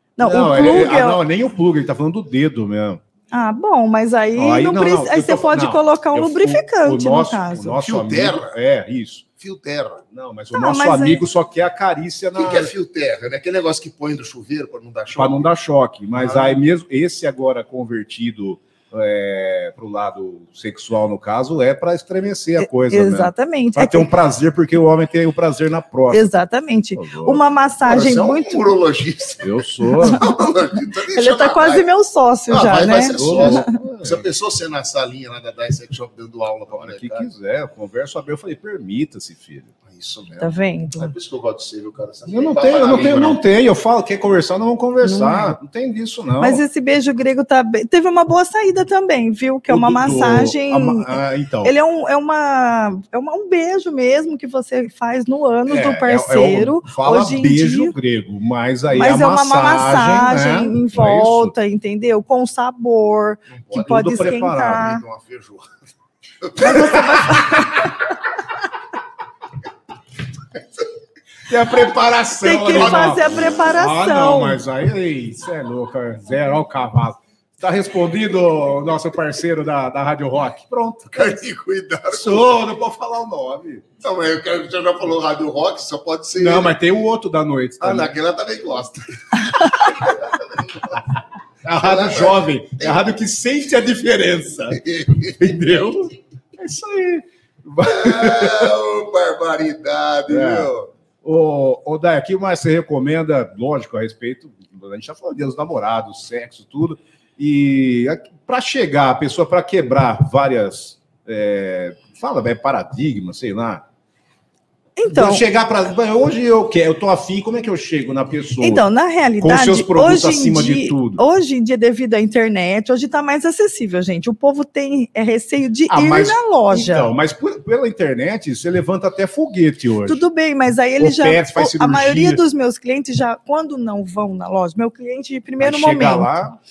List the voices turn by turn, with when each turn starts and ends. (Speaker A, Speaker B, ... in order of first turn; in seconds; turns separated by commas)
Speaker A: 0.2-1.2, Speaker B: 0.2-3.0, Speaker A: 3.3-7.8, Speaker B: 4.3-9.2, Speaker C: 7.8-8.6, Speaker C: 9.4-10.0, Speaker B: 10.1-12.7, Speaker A: 10.5-11.2, Speaker C: 12.3-15.5, Speaker B: 15.1-26.3, Speaker C: 16.2-16.6, Speaker A: 22.6-24.1, Speaker A: 26.1-28.7, Speaker B: 27.0-27.4, Speaker C: 27.9-31.8, Speaker B: 29.4-30.2, Speaker A: 31.1-33.7, Speaker C: 32.5-37.3, Speaker B: 33.1-34.3, Speaker B: 36.7-39.7, Speaker C: 39.9-43.4, Speaker A: 40.4-41.1, Speaker B: 42.3-46.6, Speaker A: 45.0-45.6, Speaker A: 46.4-51.1, Speaker B: 49.7-51.7, Speaker A: 51.6-58.0, Speaker B: 55.7-61.5, Speaker A: 58.9-65.0, Speaker C: 63.5-65.7, Speaker B: 63.7-65.0, Speaker C: 66.4-67.8, Speaker A: 66.6-67.7, Speaker B: 66.7-67.7, Speaker B: 71.5-81.4, Speaker A: 72.4-74.6, Speaker C: 72.7-73.6, Speaker C: 81.1-82.5, Speaker B: 82.1-83.9, Speaker C: 84.0-86.7, Speaker B: 86.4-88.1, Speaker C: 87.8-91.0, Speaker B: 91.7-98.7, Speaker C: 91.7-93.1, Speaker C: 94.7-95.5, Speaker C: 97.8-100.9, Speaker B: 100.3-100.7, Speaker B: 101.2-113.8, Speaker A: 115.0-115.4, Speaker B: 115.1-118.8, Speaker A: 118.6-127.1, Speaker B: 119.4-121.2, Speaker B: 125.9-130.2, Speaker A: 130.1-136.3, Speaker B: 131.0-132.4, Speaker B: 135.6-136.6